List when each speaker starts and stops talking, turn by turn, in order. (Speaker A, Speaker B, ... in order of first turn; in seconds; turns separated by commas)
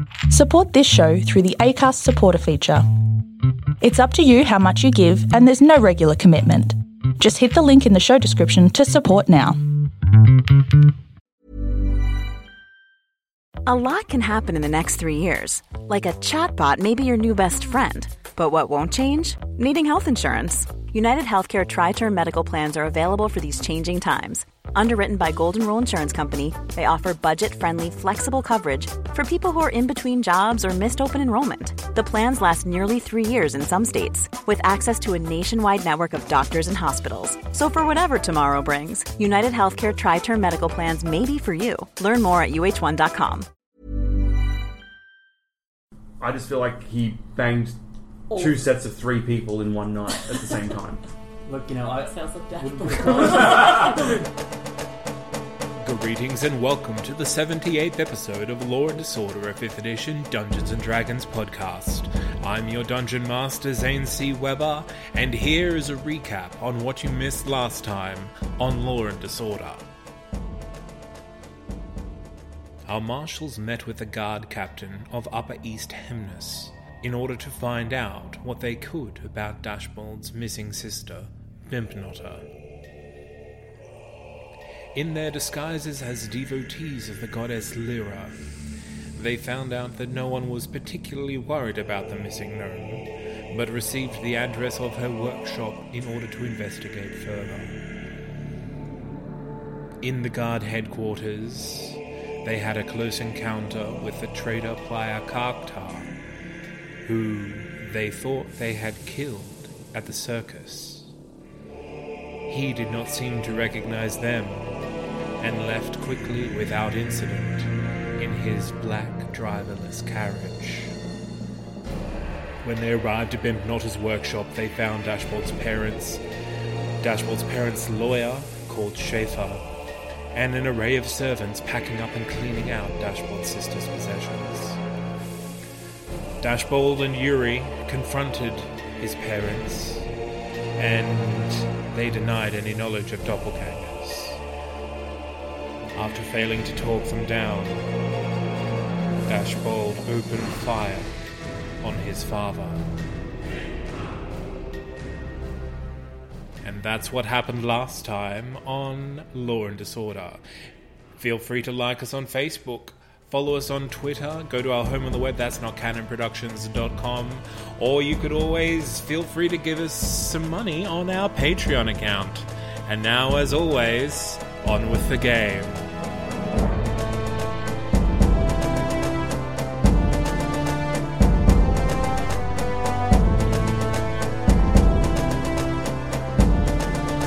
Speaker A: 0.3-2.8, Speaker A: 3.8-9.6, Speaker B: 13.7-43.5, Speaker C: 46.2-47.8, Speaker D: 48.3-48.6, Speaker C: 48.3-52.0, Speaker D: 51.8-54.2, Speaker C: 52.6-54.1, Speaker E: 55.8-69.9, Speaker E: 72.9-82.4, Speaker E: 84.9-88.3, Speaker E: 89.2-97.7, Speaker E: 100.0-106.2, Speaker E: 107.0-111.1, Speaker E: 112.5-114.7, Speaker E: 115.4-120.9, Speaker E: 122.6-126.2, Speaker E: 127.0-129.6, Speaker E: 130.3-134.8, Speaker E: 136.4-140.1, Speaker E: 140.8-144.4, Speaker E: 145.9-147.8, Speaker E: 149.2-151.1, Speaker E: 151.8-152.8, Speaker E: 156.6-160.4, Speaker E: 161.2-175.8